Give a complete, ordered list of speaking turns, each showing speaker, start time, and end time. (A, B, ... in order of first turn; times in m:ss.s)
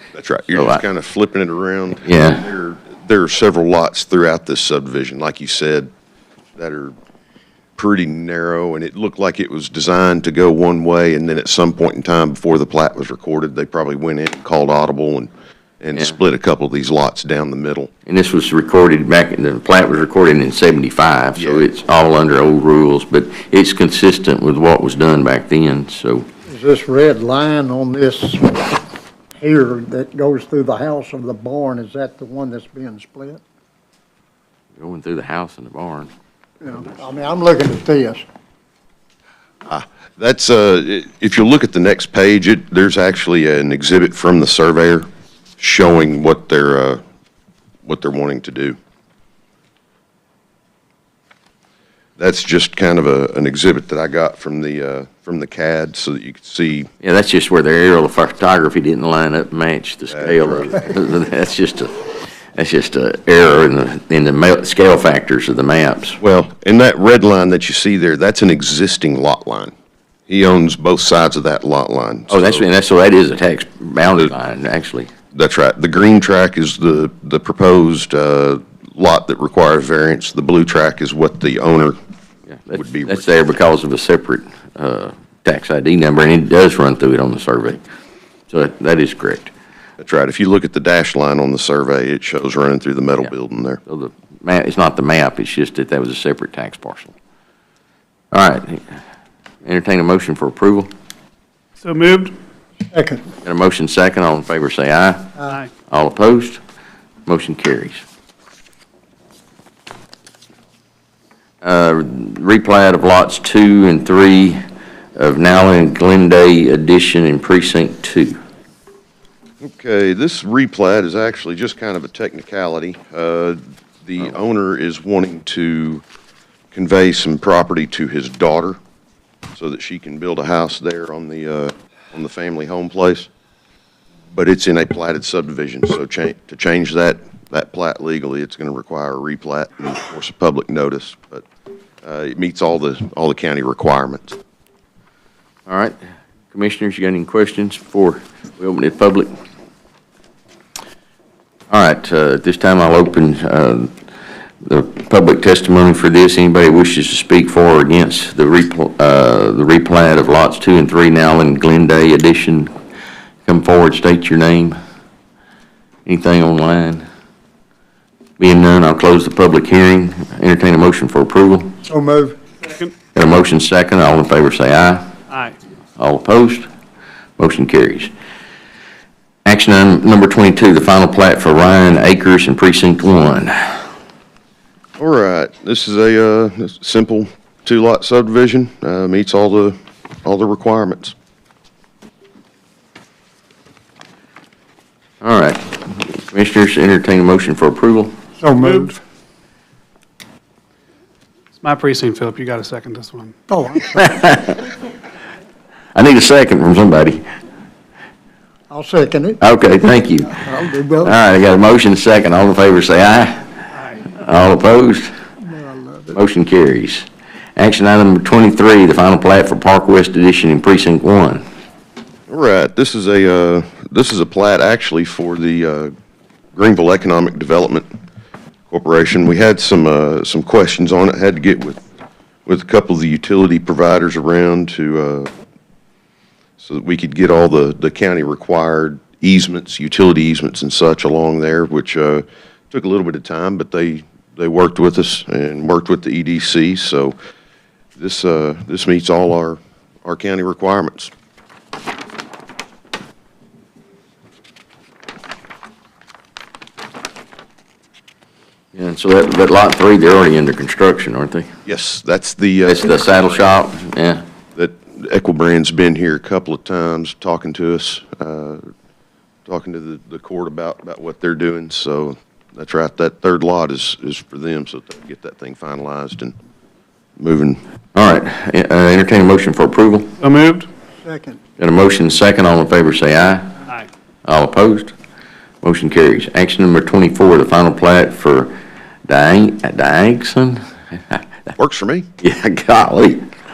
0:00.1-0:05.9 A
0:00.5-0:00.8 B
0:02.0-0:02.5 B
0:06.6-0:06.9 A
0:07.8-0:15.3 A
0:15.8-0:17.9 A
0:18.1-0:26.2 B
0:21.4-0:21.7 A
0:26.5-0:28.8 C
0:29.4-0:33.4 C
0:34.8-0:36.1 B
0:36.6-0:38.2 C
0:39.6-0:45.1 A
0:45.6-0:47.0 A
0:47.8-0:48.8 A
0:52.2-0:56.9 A
0:57.0-1:06.2 B
1:00.1-1:00.9 A
1:06.2-1:09.7 A
1:10.3-1:12.7 A
1:12.3-1:15.1 B
1:15.3-1:22.0 A
1:22.5-1:27.8 B
1:22.7-1:23.4 A
1:28.5-1:29.5 B
1:30.0-1:33.8 A
1:33.9-1:37.1 B
1:38.3-1:39.0 B
1:39.6-1:40.9 B
1:41.8-1:42.3 D
1:42.9-1:43.2 C
1:43.4-1:45.3 B
1:45.9-1:46.6 B
1:47.2-1:48.0 B
1:51.6-1:54.6 B
1:55.2-1:58.4 B
1:59.6-2:06.0 A
2:06.7-2:08.8 A
2:09.5-2:13.3 A
2:14.3-2:21.4 A
2:22.0-2:24.4 A
2:25.7-2:26.0 B
2:26.5-2:29.3 B
2:31.7-2:33.9 B
2:34.6-2:42.7 B
2:43.4-2:44.8 B
2:46.0-2:47.0 B
2:48.4-2:51.7 B
2:51.8-2:52.4 C
2:52.6-2:52.9 D
2:53.1-2:55.1 B
2:55.3-2:55.6 D
2:56.0-2:56.7 B
2:57.4-2:58.1 B
2:59.4-3:03.9 B
3:05.0-3:11.1 A
3:15.2-3:18.2 B
3:18.4-3:19.0 C
3:18.6-3:18.9 D
3:21.6-3:23.4 D
3:23.5-3:24.2 C
3:24.0-3:24.7 B
3:25.9-3:27.2 B
3:28.7-3:29.4 C
3:29.4-3:30.5 B
3:30.3-3:31.2 C
3:31.0-3:35.1 B
3:35.4-3:36.2 C
3:36.1-3:41.4 B
3:42.3-3:45.9 A
3:46.5-3:47.9 A
3:48.7-3:51.8 A
3:52.4-3:55.3 A
3:56.6-4:07.1 A
4:08.0-4:11.1 A
4:18.7-4:21.5 B
4:21.6-4:23.6 A
4:22.6-4:24.2 B
4:24.6-4:28.6 A
4:29.4-4:36.3 A
4:37.2-4:37.6 A
4:37.9-4:40.1 B
4:40.2-4:40.7 D
4:41.0-4:41.4 C
4:41.6-4:43.5 B
4:44.2-4:44.9 B
4:45.6-4:48.5 B
4:49.1-4:51.2 B
4:51.6-4:52.1 A
4:52.2-4:53.3 B